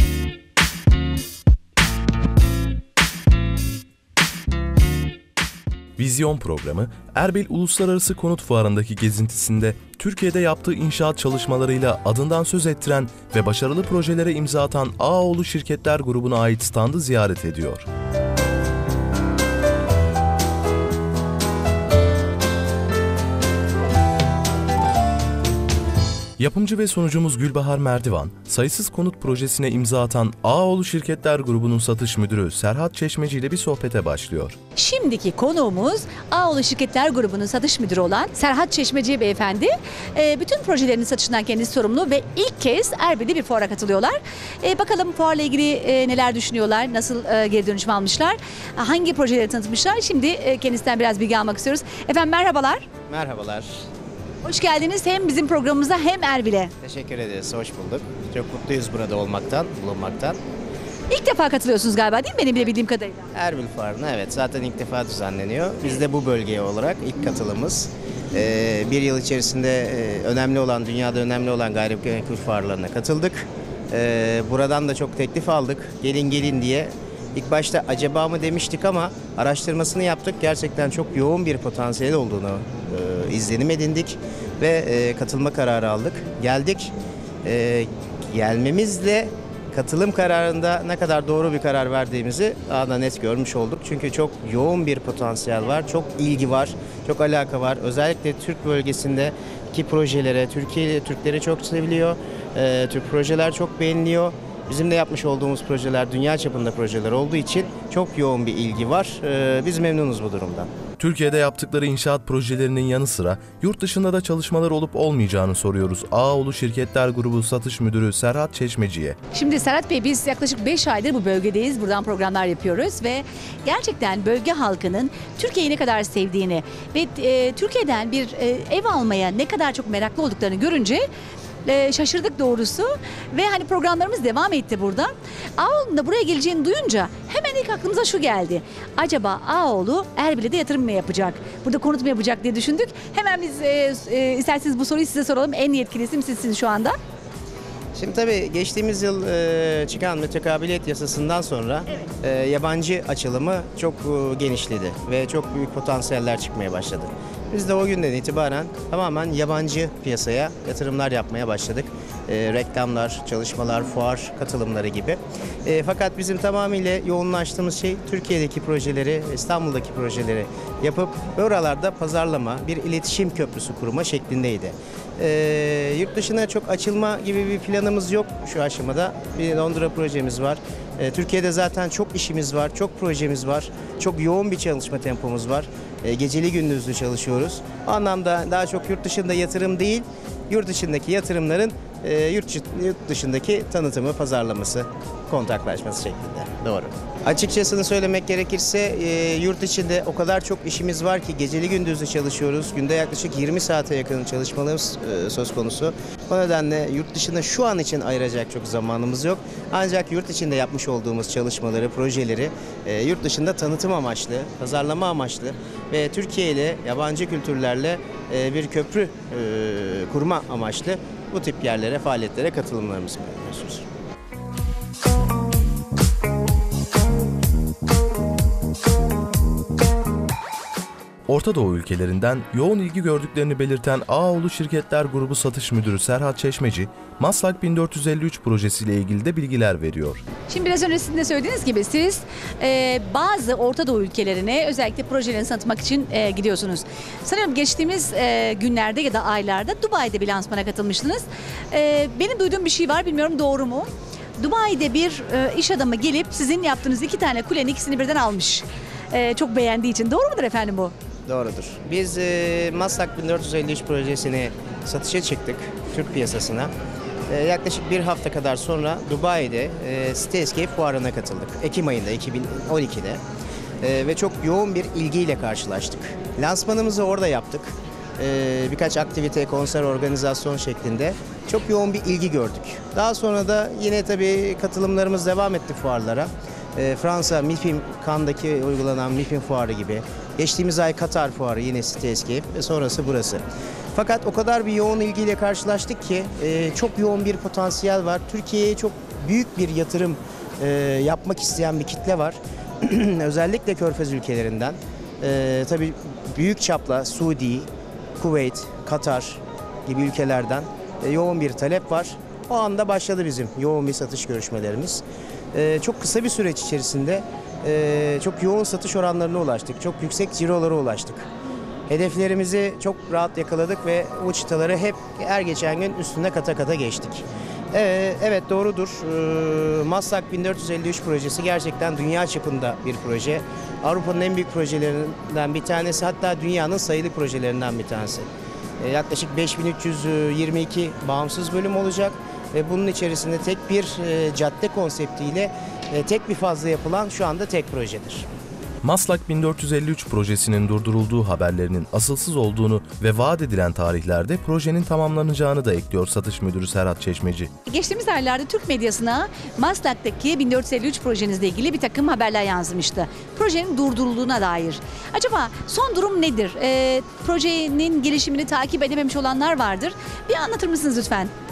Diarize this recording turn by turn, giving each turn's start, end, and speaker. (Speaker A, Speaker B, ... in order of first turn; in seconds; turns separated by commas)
Speaker A: 6.0-17.9, Speaker A: 26.4-34.5, Speaker B: 34.8-52.9, Speaker C: 53.1-53.8, Speaker B: 54.4-56.7, Speaker C: 56.8-60.4, Speaker B: 61.1-63.2, Speaker C: 63.3-110.7, Speaker A: 111.0-119.2, Speaker B: 119.3-131.1, Speaker B: 131.6-146.9, Speaker C: 147.9-223.8, Speaker A: 231.3-240.2, Speaker B: 240.5-260.9, Speaker C: 261.3-266.7, Speaker C: 267.3-273.2, Speaker C: 273.8-293.4, Speaker C: 293.9-307.7, Speaker C: 308.2-321.3, Speaker C: 321.9-338.3, Speaker C: 338.8-348.2, Speaker A: 348.8-357.5, Speaker B: 357.6-371.3